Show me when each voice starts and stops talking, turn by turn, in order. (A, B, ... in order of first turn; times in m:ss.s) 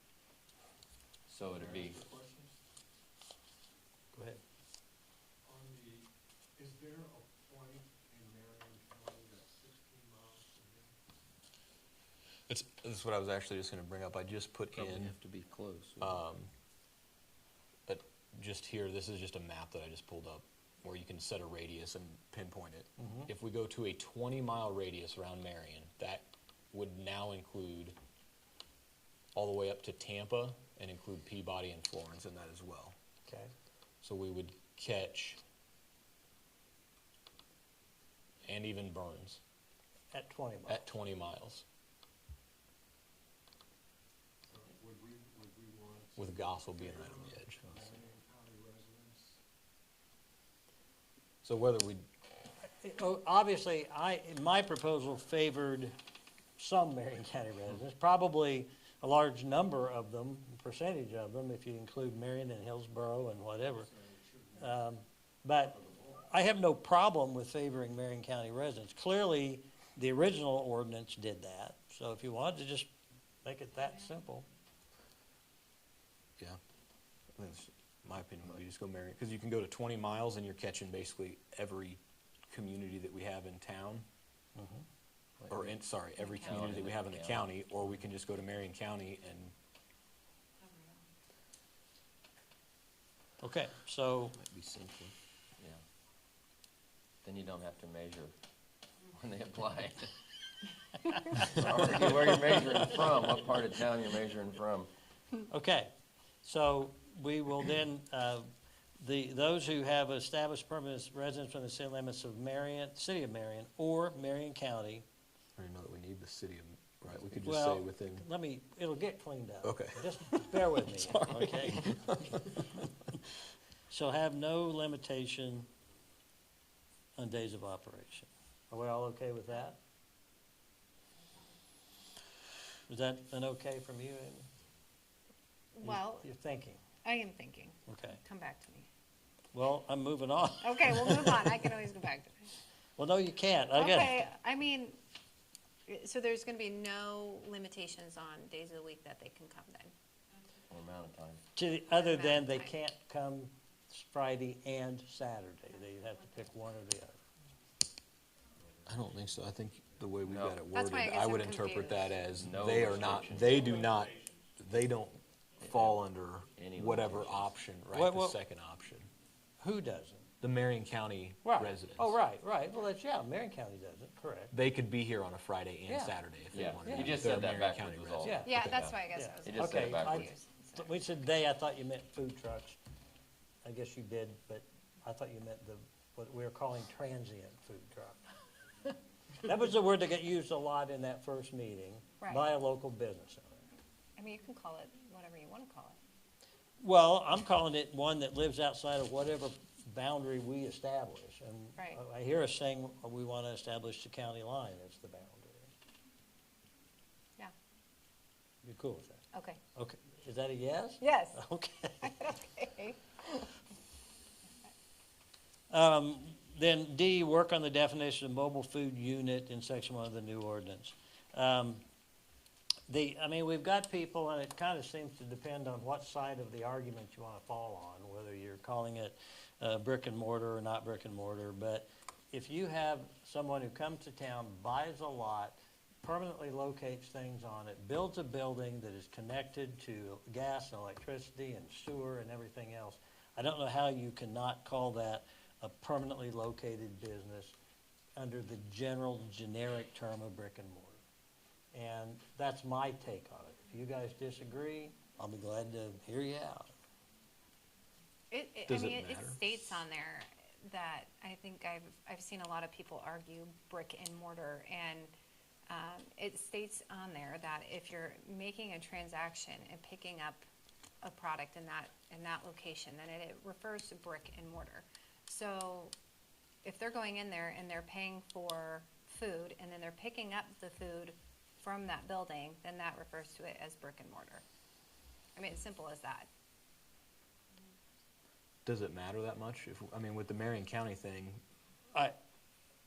0:01.3-0:02.0 A
0:01.6-0:02.5 B
0:04.1-0:04.4 C
0:05.4-0:10.9 B
0:12.5-0:15.1 D
0:14.7-0:16.2 A
0:16.0-0:16.5 D
0:17.9-0:28.0 D
0:23.0-0:23.3 C
0:29.3-0:32.9 D
0:34.0-0:35.4 D
0:38.4-0:39.4 D
0:40.1-0:40.9 C
0:40.7-0:41.6 D
0:44.5-0:49.4 B
0:46.2-0:47.7 D
0:51.4-0:52.0 D
0:52.8-0:55.9 C
0:56.6-1:03.9 C
1:03.8-1:04.8 B
1:04.6-1:12.9 C
1:05.8-1:06.2 B
1:13.4-1:14.4 C
1:17.3-1:24.0 D
1:24.6-1:24.8 C
1:25.4-1:25.7 C
1:25.5-1:29.5 D
1:26.3-1:27.5 A
1:33.4-1:34.4 C
1:34.5-1:35.8 A
1:37.2-1:38.3 A
1:39.1-1:40.1 A
1:41.4-1:44.9 A
1:45.5-1:45.9 C
1:46.4-1:48.5 C
1:49.0-1:55.0 C
1:55.6-1:58.3 D
1:57.4-2:03.1 C
1:59.6-2:02.6 D
2:03.9-2:05.7 C
2:07.2-2:09.8 C
2:12.9-2:14.5 C
2:15.7-2:16.3 E
2:15.8-2:16.8 C
2:17.0-2:18.9 E
2:17.9-2:18.2 C
2:19.5-2:21.7 C
2:20.6-2:22.3 E
2:23.0-2:24.3 C
2:23.7-2:25.0 E
2:25.9-2:29.9 E
2:30.7-2:31.4 A
2:31.5-2:37.2 C
2:31.9-2:32.7 E
2:38.8-2:49.1 D
2:40.2-2:40.6 A
2:40.7-2:42.1 E
2:42.4-2:43.6 A
2:45.6-2:46.0 A
2:46.5-2:47.5 A
2:47.9-2:48.4 C
2:49.6-2:50.3 C
2:50.4-2:52.2 D
2:51.4-2:54.5 C
2:54.5-2:58.9 D
2:55.9-2:56.2 C
2:56.5-3:00.3 A
2:56.8-2:57.2 C
2:58.2-2:58.6 C
2:58.4-3:00.9 E
2:59.1-3:02.8 C
3:03.6-3:08.2 C
3:08.8-3:13.6 C
3:12.2-3:12.4 E
3:14.2-3:16.0 E
3:16.8-3:25.7 C
3:28.6-3:29.2 C
3:29.3-3:29.6 E
3:29.7-3:32.3 C
3:31.0-3:31.4 E
3:32.0-3:33.0 E
3:35.7-3:41.8 C
3:42.9-4:07.5 C
4:08.2-4:11.0 C
4:11.7-4:16.7 C
4:18.3-4:25.1 E
4:18.6-4:19.4 D
4:25.7-4:30.4 E
4:31.0-4:35.9 E
4:36.6-4:44.4 E
4:45.4-4:46.3 E
4:48.6-4:51.4 D